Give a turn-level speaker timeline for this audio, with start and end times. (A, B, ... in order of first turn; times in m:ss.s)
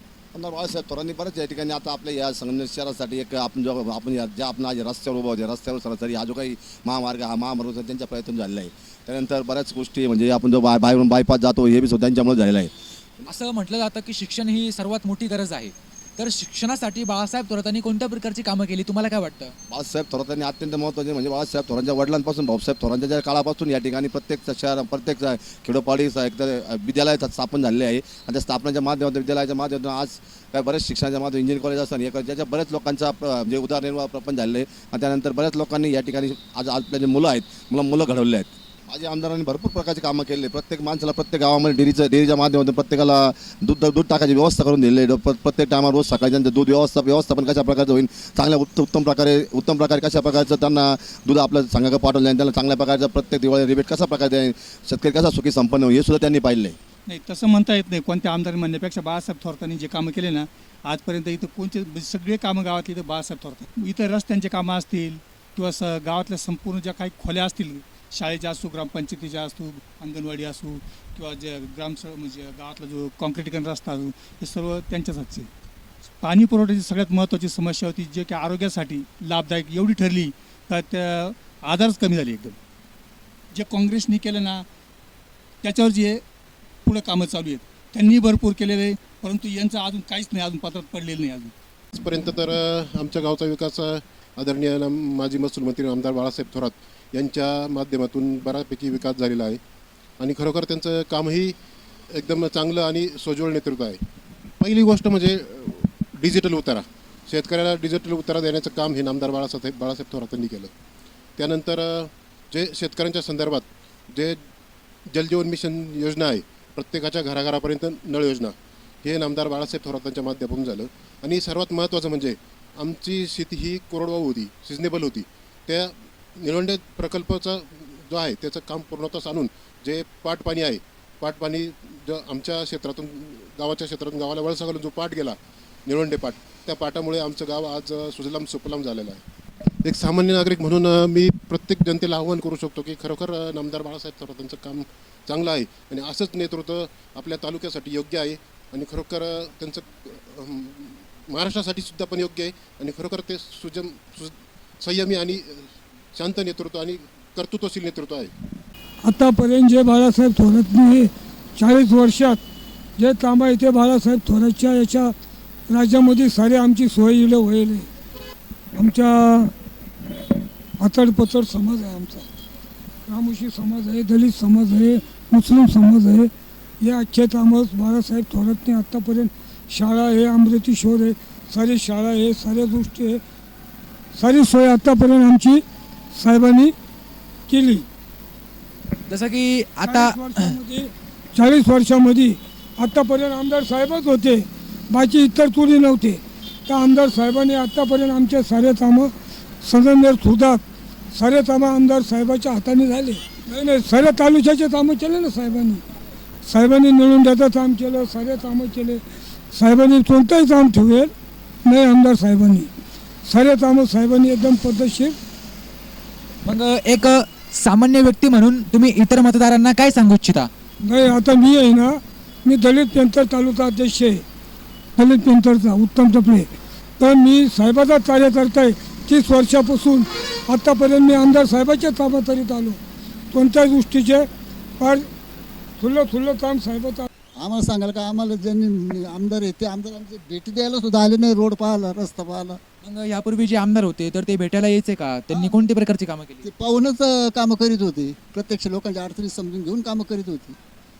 0:00.3-0:13.2 A
0:13.3-0:19.6 B
0:19.7-0:56.8 A
0:57.1-1:15.5 C
1:16.2-1:22.6 C
1:23.5-1:24.6 C
1:25.6-1:26.2 C
1:26.8-1:31.5 C
1:31.9-1:39.6 D
1:40.2-1:41.6 D
1:42.1-1:44.0 D
1:44.6-1:50.7 D
1:51.4-1:54.4 D
1:55.1-2:19.2 D
2:19.8-2:38.3 D
2:39.0-2:42.4 E
2:43.0-2:45.2 E
2:45.7-2:47.9 E
2:48.8-2:49.5 E
2:50.8-2:52.3 E
2:53.1-2:56.3 E
2:56.8-3:03.2 E
3:04.2-3:05.6 E
3:06.2-3:06.7 E
3:07.5-3:07.8 E
3:09.1-3:10.6 B
3:09.8-3:25.8 E
3:26.5-3:31.1 E
3:31.6-3:32.7 E
3:33.3-3:35.2 E
3:36.4-3:40.5 B
3:40.8-3:44.2 E
3:45.0-3:52.8 E
3:53.3-3:54.3 E
3:54.8-3:55.1 E
3:55.8-3:57.1 E
3:57.4-4:02.6 F
4:02.8-4:06.4 B
4:06.4-4:10.6 F